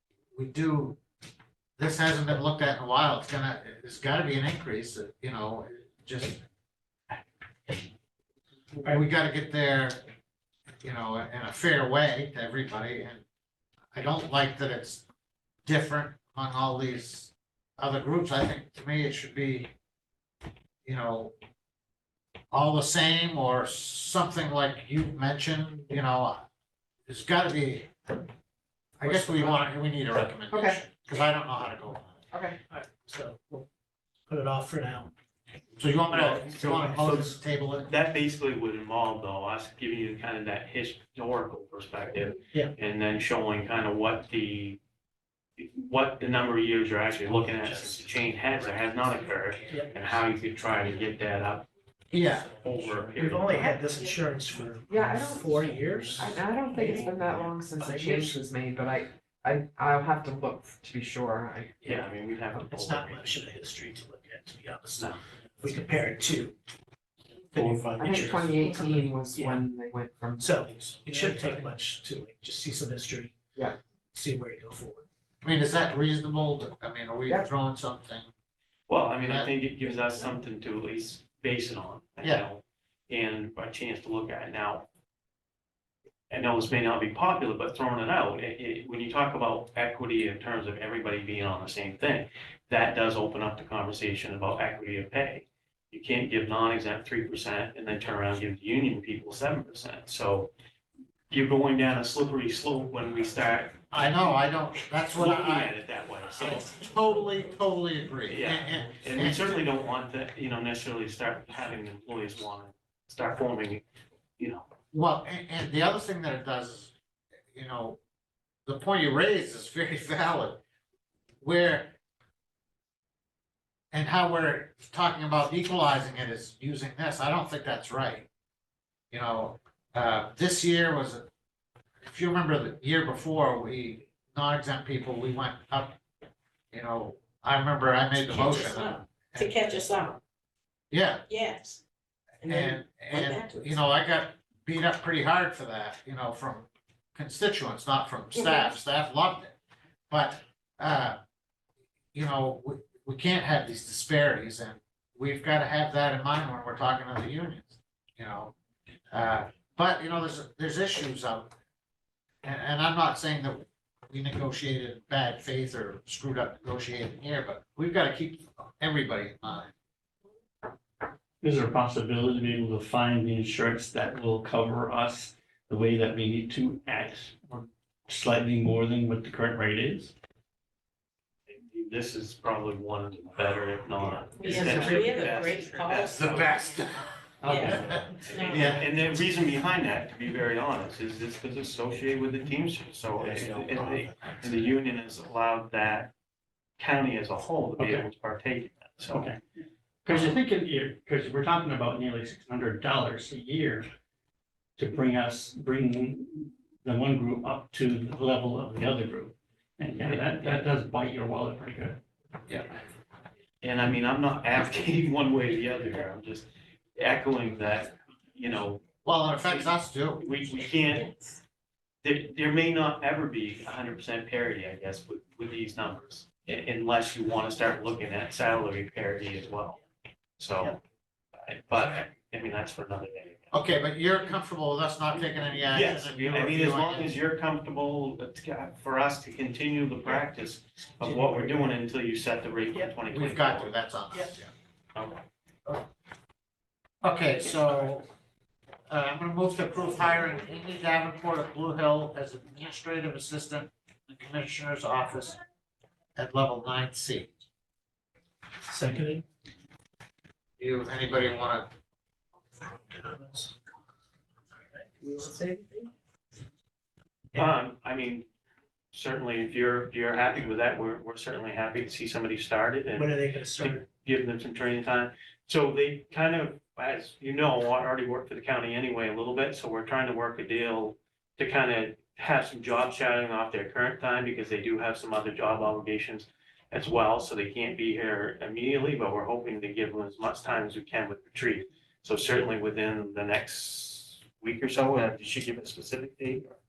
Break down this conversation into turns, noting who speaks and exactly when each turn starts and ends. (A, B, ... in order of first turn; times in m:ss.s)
0:00.4-0:01.0 A
0:01.8-0:06.4 A
0:08.8-0:10.0 A
0:10.8-0:13.2 A
0:13.9-0:15.0 A
0:15.6-0:19.7 A
0:20.8-0:21.3 A
0:22.5-0:26.5 A
0:27.1-0:28.2 A
0:29.0-0:32.2 A
0:29.0-0:29.7 B
0:30.5-0:30.8 B
0:32.3-0:32.6 B
0:32.7-0:33.7 C
0:34.3-0:35.1 C
0:35.8-0:37.9 A
0:36.1-0:37.3 D
0:36.7-0:37.0 C
0:37.8-0:44.8 D
0:45.6-0:51.7 D
0:47.3-0:48.1 C
0:49.7-0:50.2 C
0:52.1-0:52.5 A
0:52.4-0:53.7 D
0:52.9-0:58.4 C
0:53.7-0:54.4 E
0:54.9-1:02.1 B
1:01.8-1:03.3 D
1:02.6-1:06.6 C
1:05.0-1:05.2 D
1:07.5-1:09.6 C
1:08.0-1:10.6 B
1:10.4-1:13.4 C
1:11.2-1:11.7 B
1:14.1-1:15.1 C
1:15.4-1:18.3 A
1:18.9-1:24.9 D
1:19.2-1:19.5 A
1:26.3-1:40.5 D
1:41.3-1:43.9 D
1:43.9-1:45.7 A
1:45.1-1:46.7 D
1:46.3-1:49.6 A
1:48.3-1:53.8 D
1:54.4-1:54.7 D
1:54.9-1:56.9 A
1:57.5-1:58.0 A
1:58.7-2:00.6 A
2:01.4-2:01.9 A
2:03.9-2:08.3 A
2:09.1-2:11.2 A
2:12.0-2:16.0 A
2:16.7-2:20.0 A
2:18.3-2:20.2 E
2:20.9-2:21.2 A
2:21.3-2:21.8 E
2:22.4-2:23.8 E
2:22.4-2:29.6 A
2:30.1-2:31.2 A
2:32.1-2:38.5 A
2:39.1-2:41.5 A
2:42.4-2:49.7 A
2:51.4-3:00.1 F
3:01.5-3:06.8 D
3:04.4-3:06.7 E
3:04.5-3:05.3 A
3:04.5-3:05.8 B
3:06.1-3:08.8 A
3:07.4-3:08.6 F
3:07.4-3:08.7 E
3:07.8-3:16.1 D
3:13.3-3:13.6 F
3:16.8-3:19.3 D
3:17.8-3:18.0 F
3:19.1-3:19.4 F
3:20.0-3:23.9 F
3:24.8-3:32.0 F
3:30.0-3:30.6 D
3:33.6-3:38.8 D
3:39.0-3:40.2 A
3:39.4-3:41.1 D
3:42.0-3:49.8 D
3:50.4-3:50.8 D
3:51.4-3:53.5 D
3:53.5-3:57.1 A
3:55.7-4:03.8 D
3:55.8-3:56.1 C
4:01.0-4:01.7 C
4:03.1-4:04.5 A
4:04.1-4:04.4 C
4:05.0-4:05.2 D
4:07.0-4:08.1 A
4:08.9-4:15.4 A
4:16.2-4:17.3 A
4:18.7-4:19.2 C
4:20.6-4:21.7 A
4:22.7-4:23.6 C
4:24.8-4:25.8 C
4:27.4-4:28.3 D
4:28.9-4:56.6 D
4:33.0-4:33.8 C